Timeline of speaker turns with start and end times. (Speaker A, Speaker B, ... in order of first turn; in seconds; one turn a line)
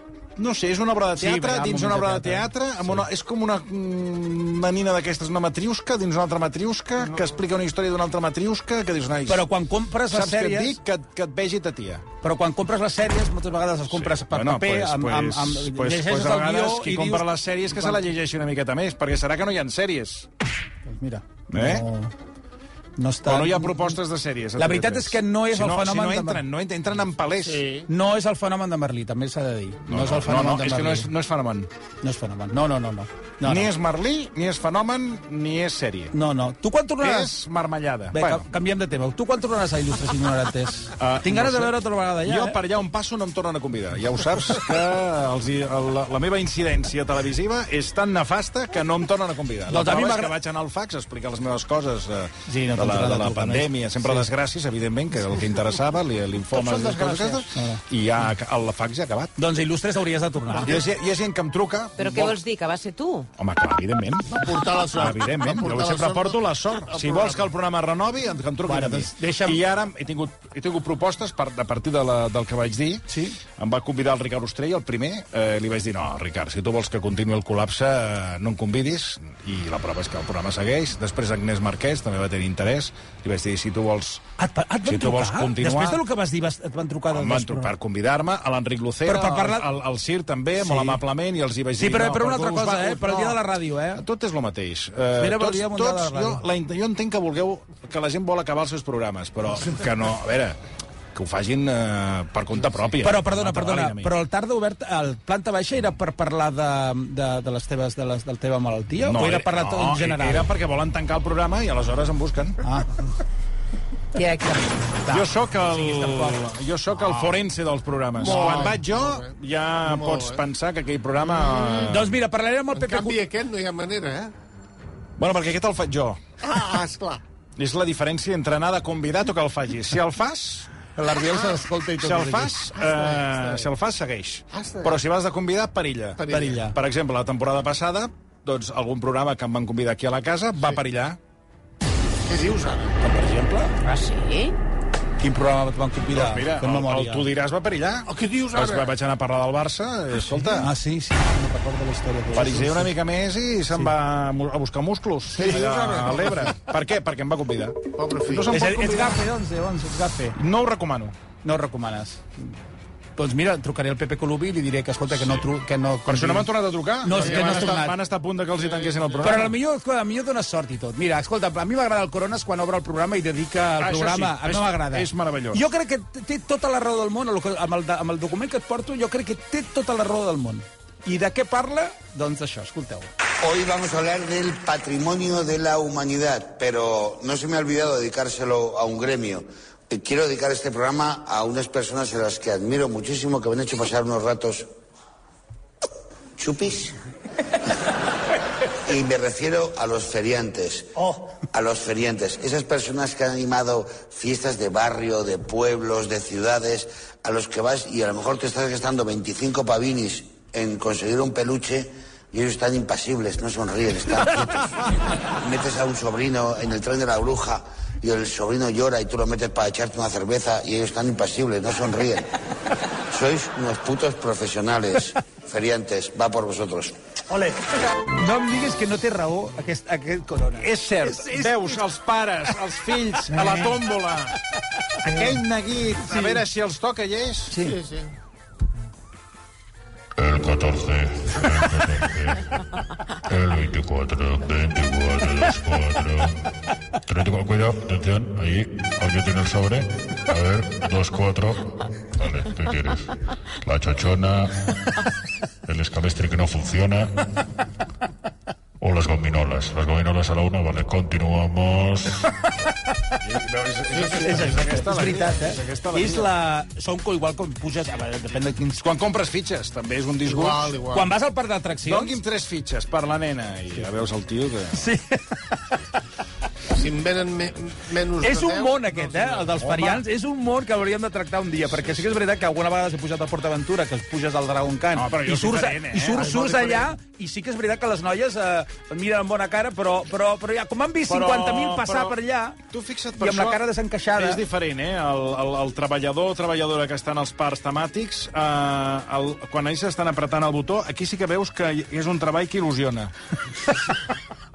Speaker A: 0.4-9.4
Speaker B: 1.1-3.0
Speaker B: 9.3-10.8
Speaker A: 10.1-12.0
Speaker B: 12.2-18.1
Speaker A: 13.9-20.3
Speaker B: 20.9-22.1
Speaker A: 21.5-21.8
Speaker B: 23.0-24.0
Speaker A: 23.2-27.6
Speaker B: 24.6-26.4
Speaker C: 27.4-27.9
Speaker B: 27.9-31.1
Speaker A: 29.9-31.7
Speaker B: 32.0-33.7
Speaker A: 33.4-36.1
Speaker B: 36.1-37.4
Speaker A: 37.0-38.5
Speaker B: 38.1-42.6
Speaker A: 41.0-59.3
Speaker B: 49.7-50.3
Speaker B: 52.5-54.3
Speaker B: 57.5-57.8
Speaker B: 59.4-60.8
Speaker A: 60.6-62.4
Speaker D: 62.0-63.3
Speaker A: 63.4-73.0
Speaker C: 64.3-66.4
Speaker C: 66.9-67.5
Speaker B: 68.6-69.6
Speaker B: 73.1-73.4
Speaker A: 73.6-84.2
Speaker B: 84.4-87.7
Speaker A: 84.8-86.0
Speaker A: 87.1-93.4
Speaker B: 89.0-89.7
Speaker B: 90.6-91.0
Speaker B: 91.8-94.0
Speaker A: 94.0-100.6
Speaker B: 95.2-96.4
Speaker A: 101.1-104.1
Speaker B: 103.0-110.5
Speaker A: 109.0-112.6
Speaker B: 112.6-112.9
Speaker B: 114.2-116.4
Speaker A: 115.1-122.1
Speaker B: 116.9-117.3
Speaker C: 118.2-119.2
Speaker B: 118.2-118.7
Speaker C: 119.8-120.4
Speaker B: 121.9-123.2
Speaker C: 122.7-124.3
Speaker A: 125.2-126.2
Speaker C: 126.4-127.2
Speaker A: 127.6-130.7
Speaker B: 130.9-132.5
Speaker C: 131.2-131.8
Speaker A: 132.0-141.2
Speaker C: 132.8-133.7
Speaker C: 134.5-134.9
Speaker C: 136.2-136.6
Speaker B: 136.3-136.8
Speaker C: 142.2-142.9
Speaker B: 143.0-143.7
Speaker D: 143.8-144.6
Speaker B: 145.2-147.3
Speaker A: 146.1-150.7
Speaker C: 148.1-148.9
Speaker B: 150.4-152.9
Speaker A: 152.3-159.2
Speaker C: 155.3-156.4
Speaker C: 158.0-158.4
Speaker B: 158.5-160.4
Speaker A: 160.3-161.2
Speaker B: 161.4-162.5
Speaker B: 163.2-168.0
Speaker A: 165.1-165.4
Speaker A: 166.1-169.6
Speaker C: 167.2-167.8
Speaker C: 168.6-169.3
Speaker B: 169.2-183.1
Speaker A: 173.8-175.6
Speaker E: 183.4-194.7
Speaker E: 196.4-196.9
Speaker E: 198.9-222.3
Speaker E: 223.1-226.9
Speaker B: 228.1-231.7
Speaker A: 230.6-234.3
Speaker B: 233.3-233.7
Speaker A: 235.0-237.7
Speaker B: 237.5-237.8
Speaker C: 237.7-238.1
Speaker F: 240.2-242.4
Speaker F: 243.3-246.3
Speaker F: 247.1-253.1
Speaker F: 253.6-254.7
Speaker F: 255.7-257.2
Speaker F: 258.8-262.2
Speaker A: 263.2-266.3
Speaker B: 264.2-268.8
Speaker A: 268.8-270.8
Speaker C: 270.3-271.1
Speaker B: 270.9-272.2
Speaker A: 271.8-274.8
Speaker B: 274.7-275.8
Speaker C: 276.7-279.5
Speaker B: 278.2-292.6
Speaker A: 279.6-280.0
Speaker A: 284.9-286.3
Speaker C: 286.1-286.9
Speaker A: 291.1-292.1
Speaker A: 292.7-293.6
Speaker B: 293.2-294.4
Speaker A: 294.1-303.1